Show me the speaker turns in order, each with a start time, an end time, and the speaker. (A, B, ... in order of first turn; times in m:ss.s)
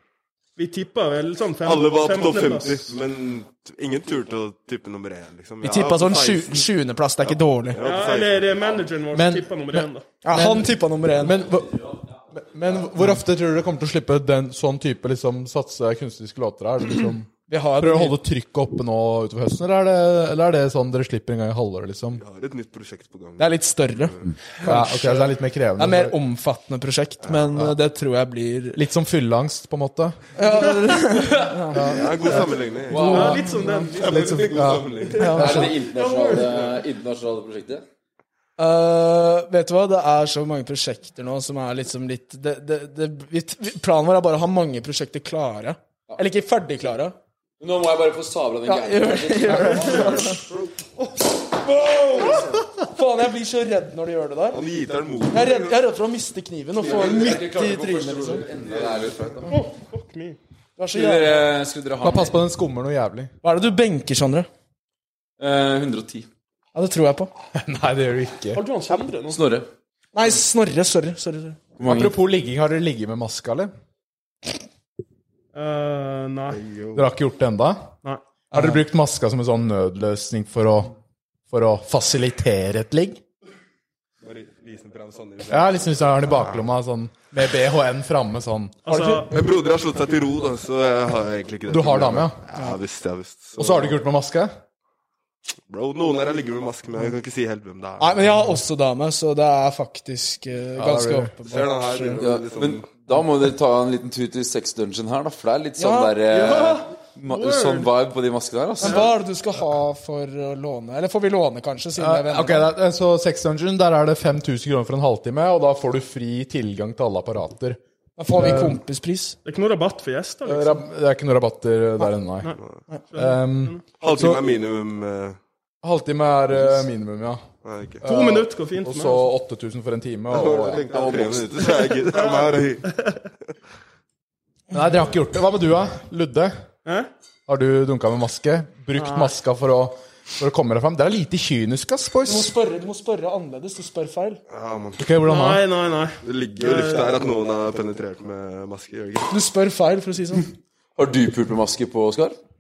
0:00.6-0:02.9 A
0:01.6-0:06.7 B
0:05.6-0:07.8 C
0:07.3-0:08.9 B
0:07.8-0:10.0 A
0:09.1-0:22.2 D
0:10.2-0:11.4 C
0:17.5-0:18.2 C
0:22.2-0:23.6 B
0:23.4-0:25.1 C
0:24.6-0:26.2 D
0:25.8-0:28.8 C
0:28.8-0:30.2 D
0:30.4-0:33.8 C
0:31.1-0:31.6 E
0:31.7-0:32.3 D
0:31.8-0:33.4 B
0:32.9-0:33.6 E
0:33.0-0:34.4 A
0:33.9-0:35.6 B
0:34.0-0:35.7 D
0:34.6-0:37.8 E
0:35.1-0:35.6 C
0:35.2-0:36.7 A
0:38.6-0:47.2 C
0:47.6-0:50.4 E
0:48.7-0:50.4 C
0:51.6-0:54.7 C
0:54.5-0:55.8 B
0:55.3-0:58.4 C
0:56.8-0:59.5 E
0:58.7-0:59.4 B
0:59.5-1:00.4 A
1:00.8-1:01.4 C
1:00.9-1:02.4 E
1:02.0-1:03.3 D
1:03.4-1:04.5 C
1:05.4-1:06.3 E
1:06.8-1:07.3 C
1:07.6-1:08.6 D
1:08.5-1:09.4 A
1:09.3-1:09.7 E
1:10.1-1:11.6 C
1:11.8-1:12.2 E
1:11.8-1:13.7 D
1:15.5-1:16.6 A
1:16.5-1:17.1 B
1:17.0-1:17.9 D
1:18.5-1:20.9 D
1:18.5-1:18.8 C
1:21.5-1:23.2 D
1:24.2-1:26.6 B
1:25.5-1:28.8 D
1:28.8-1:29.4 A
1:28.9-1:29.2 C
1:29.3-1:34.0 B
1:31.7-1:32.4 D
1:33.6-1:34.5 D
1:35.7-1:38.2 B
1:38.0-1:42.2 C
1:40.8-1:41.4 D
1:41.4-1:42.9 B
1:42.2-1:49.1 E
1:45.8-1:46.2 C
1:46.4-1:47.9 A
1:48.8-1:52.7 C
1:52.0-1:57.8 D
1:58.2-1:59.4 C
1:58.3-1:58.8 D
1:59.4-2:00.8 A
2:00.4-2:02.6 D
2:03.1-2:03.8 A
2:03.2-2:04.5 D
2:04.0-2:05.4 B
2:05.8-2:07.4 D
2:07.6-2:08.0 B
2:08.0-2:11.2 D
2:08.0-2:09.3 A
2:10.3-2:12.9 B
2:10.9-2:11.5 E
2:12.1-2:13.1 A
2:14.7-2:16.5 D
2:16.8-2:17.1 A
2:17.5-2:22.5 D
2:18.9-2:19.3 A
2:22.2-2:24.4 C
2:24.5-2:25.1 B
2:25.0-2:25.7 D
2:25.2-2:27.2 A
2:26.2-2:29.3 B
2:29.3-2:30.5 C
2:31.0-2:32.4 E